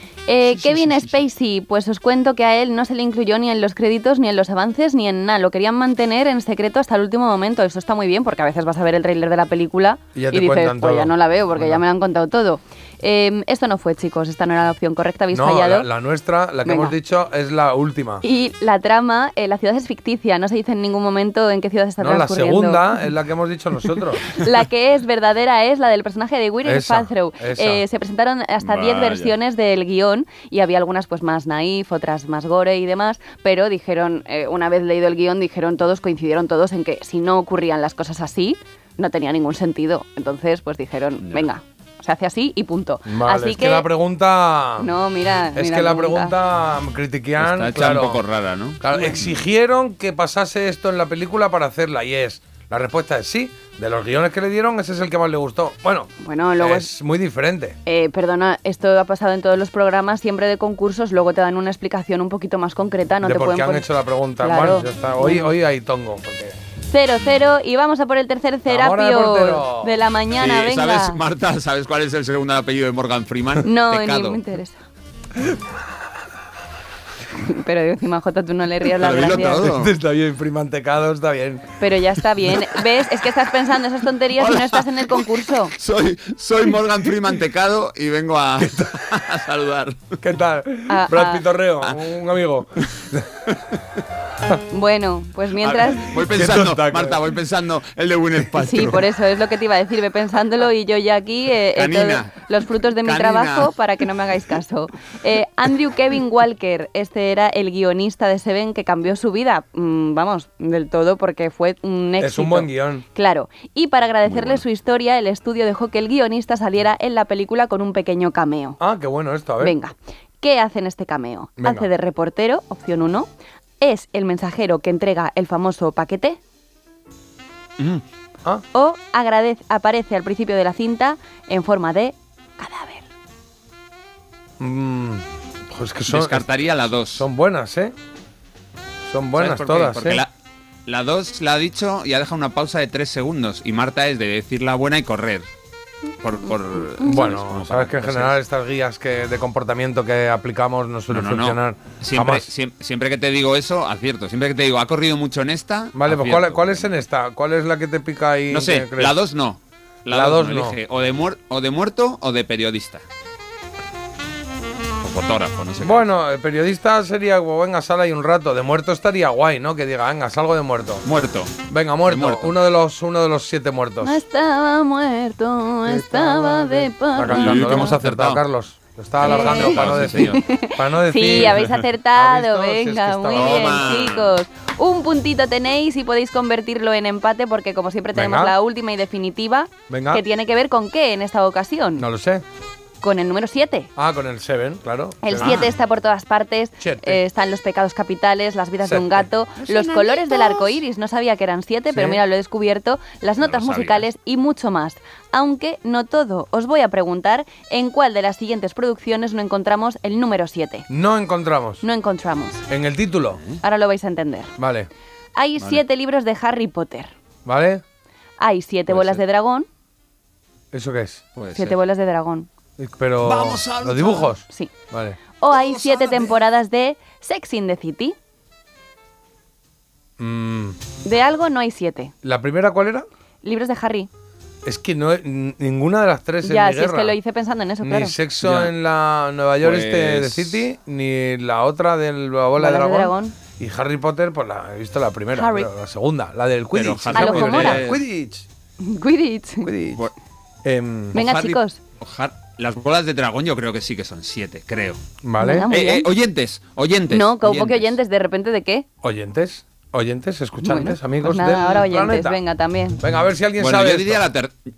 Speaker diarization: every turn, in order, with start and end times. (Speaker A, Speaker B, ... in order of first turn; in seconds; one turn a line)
Speaker A: 0.3-15.9
Speaker B: 0.5-1.1
Speaker C: 10.1-11.8
Speaker C: 15.3-18.2
Speaker A: 16.6-16.9
Speaker A: 18.2-22.9
Speaker C: 22.0-24.4
Speaker A: 24.2-43.9
Speaker C: 26.6-27.8
Speaker B: 28.6-29.3
Speaker C: 43.0-44.9
Speaker A: 44.8-46.4
Speaker C: 45.5-48.2
Speaker B: 47.4-49.4
Speaker C: 48.8-57.8
Speaker A: 56.2-56.9
Speaker A: 57.9-63.9
Speaker C: 63.2-66.6
Speaker A: 64.4-65.5
Speaker A: 66.8-71.2
Speaker C: 68.7-70.0
Speaker B: 70.4-74.4
Speaker A: 73.6-74.8
Speaker A: 77.3-79.6
Speaker B: 79.0-79.9
Speaker C: 79.4-81.7
Speaker A: 81.8-85.7
Speaker B: 84.4-90.2
Speaker C: 88.6-88.9
Speaker C: 90.2-93.4
Speaker A: 90.9-91.4
Speaker A: 94.7-96.2
Speaker B: 95.6-99.0
Speaker C: 96.2-97.2
Speaker A: 98.6-118.8
Speaker B: 101.7-102.3
Speaker B: 103.0-103.7
Speaker C: 112.2-113.0
Speaker B: 114.2-114.6
Speaker C: 118.8-119.8
Speaker A: 119.6-123.3
Speaker C: 121.6-121.9
Speaker A: 123.8-126.4
Speaker A: 128.7-133.1
Speaker C: 134.6-137.9
Speaker B: 136.1-137.2
Speaker C: 139.1-140.2
Speaker B: 139.3-140.3
Speaker B: 140.8-145.5
Speaker B: 146.2-148.4
Speaker C: 147.0-152.5
Speaker B: 151.1-156.9
Speaker C: 155.9-159.1
Speaker B: 158.5-163.0
Speaker C: 160.1-160.8
Speaker B: 165.0-166.0
Speaker C: 165.8-171.0
Speaker B: 171.0-172.6
Speaker C: 171.7-174.2
Speaker A: 174.0-177.9
Speaker C: 175.9-184.1
Speaker B: 177.3-178.4
Speaker B: 179.2-180.4
Speaker A: 179.2-192.1
Speaker B: 181.3-181.7
Speaker B: 183.3-184.4
Speaker C: 188.1-188.5
Speaker C: 189.9-190.2
Speaker C: 192.0-192.4
Speaker A: 193.0-193.9
Speaker C: 193.9-195.7
Speaker A: 195.2-210.9
Speaker B: 195.3-195.7
Speaker C: 196.8-197.2
Speaker C: 198.8-199.3
Speaker B: 199.6-200.6
Speaker C: 201.9-202.2
Speaker B: 203.4-204.1
Speaker C: 210.9-211.8
Speaker A: 211.8-212.6
Speaker C: 212.7-213.4
Speaker A: 213.6-214.5
Speaker C: 214.6-214.9
Speaker A: 215.3-217.1
Speaker C: 217.4-217.8
Speaker A: 218.4-219.7
Speaker B: 218.9-219.2
Speaker C: 220.7-221.2
Speaker B: 221.3-221.8
Speaker A: 221.5-222.5
Speaker C: 222.8-225.2
Speaker B: 223.2-224.3
Speaker A: 225.4-228.1
Speaker B: 225.5-226.3
Speaker C: 230.2-230.8
Speaker A: 231.0-232.1
Speaker C: 232.2-233.1
Speaker A: 233.4-234.1
Speaker C: 234.6-237.2
Speaker A: 236.4-238.2
Speaker C: 237.8-248.5
Speaker B: 238.4-238.7
Speaker B: 239.6-240.7
Speaker A: 242.6-243.3
Speaker A: 245.3-245.7
Speaker B: 246.7-248.0
Speaker A: 247.1-247.8
Speaker A: 248.8-249.7
Speaker C: 249.6-250.1
Speaker C: 250.6-251.2
Speaker B: 251.1-255.0
Speaker A: 251.1-251.8
Speaker C: 255.2-255.7
Speaker A: 255.4-256.1
Speaker B: 255.7-258.0
Speaker A: 257.1-258.9
Speaker C: 259.0-262.4
Speaker A: 260.6-263.0
Speaker C: 263.0-264.2
Speaker B: 263.6-264.5